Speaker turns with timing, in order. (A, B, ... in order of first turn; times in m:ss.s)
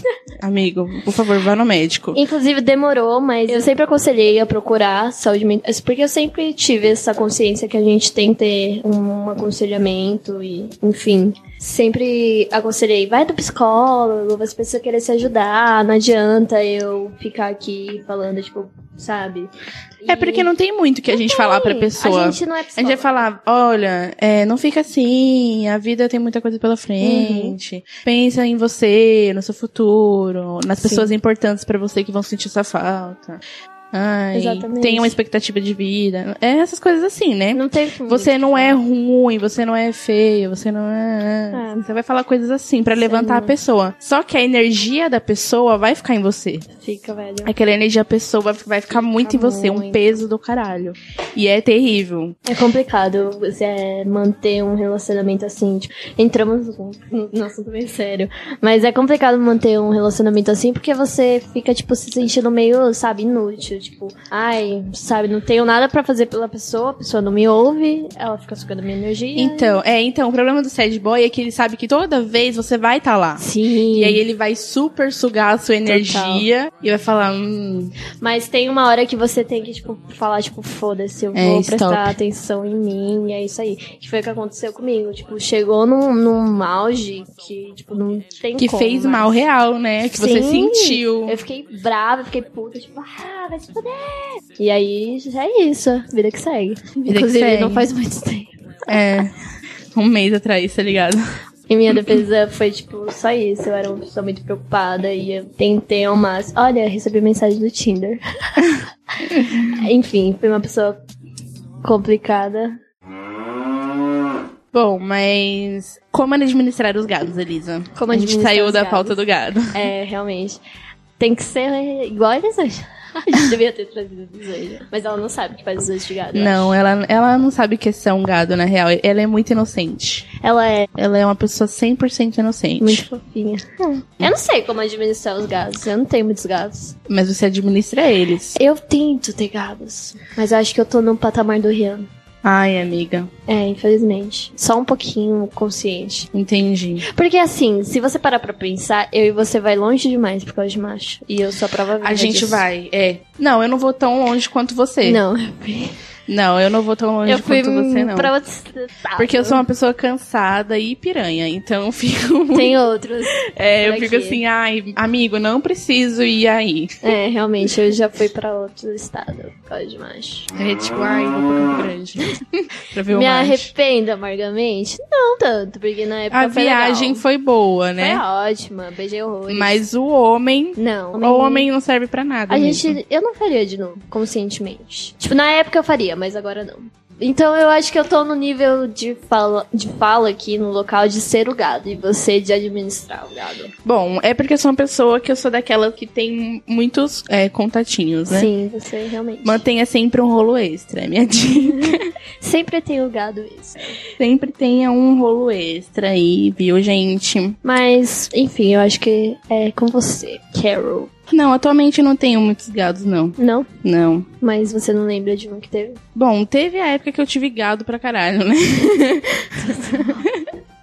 0:00.4-0:02.2 A
0:02.1-0:20.5 B
0:20.1-0:33.4 A
0:21.1-0:23.3 B
0:27.0-0:27.6 B
0:30.8-0:31.1 B
0:33.9-0:46.7 A
0:34.3-0:35.2 B
0:37.5-0:38.8 B
0:41.5-0:41.8 B
0:43.0-0:43.5 B
0:46.8-0:47.5 B
0:47.4-0:52.4 A
0:48.9-0:50.2 B
0:52.4-1:09.8 B
1:09.4-1:17.9 A
1:13.4-1:14.2 B
1:15.8-1:16.5 B
1:18.2-1:29.4 B
1:21.3-1:22.2 A
1:28.6-1:31.4 A
1:30.1-1:38.9 B
1:37.0-1:37.9 A
1:38.9-1:39.3 A
1:39.9-1:41.2 A
1:41.7-1:48.2 B
1:41.9-1:42.2 A
1:49.3-1:49.8 A
1:49.4-1:51.0 B
1:51.8-1:52.8 B
1:54.7-1:59.8 A
1:57.9-2:00.6 B
2:01.2-2:06.8 B
2:06.3-2:10.3 A
2:10.4-2:10.9 B
2:11.0-2:13.0 A
2:12.8-2:17.0 B
2:17.1-2:18.6 A
2:18.5-2:22.0 B
2:22.4-2:23.3 A
2:23.5-2:26.3 B
2:26.3-2:27.0 A
2:27.0-2:32.6 B
2:32.0-2:35.2 A
2:35.0-2:35.9 B
2:36.3-2:38.3 A
2:37.2-2:39.6 B
2:39.2-2:42.8 A
2:42.5-2:44.4 B
2:43.5-2:47.0 A
2:47.0-2:50.5 B
2:50.6-2:53.7 A
2:53.1-2:57.2 B
2:56.3-2:58.2 A
2:58.0-2:59.8 B
2:59.5-3:03.0 A
3:00.8-3:01.7 B
3:02.5-3:13.7 B
3:13.8-3:18.5 A
3:18.3-3:19.6 B
3:19.4-3:22.0 A
3:21.5-3:24.0 B
3:24.2-3:27.6 A
3:27.6-3:31.1 B
3:31.3-3:34.3 A
3:33.4-3:33.7 B
3:34.4-3:36.0 B
3:36.1-3:40.5 A
3:39.6-3:40.2 B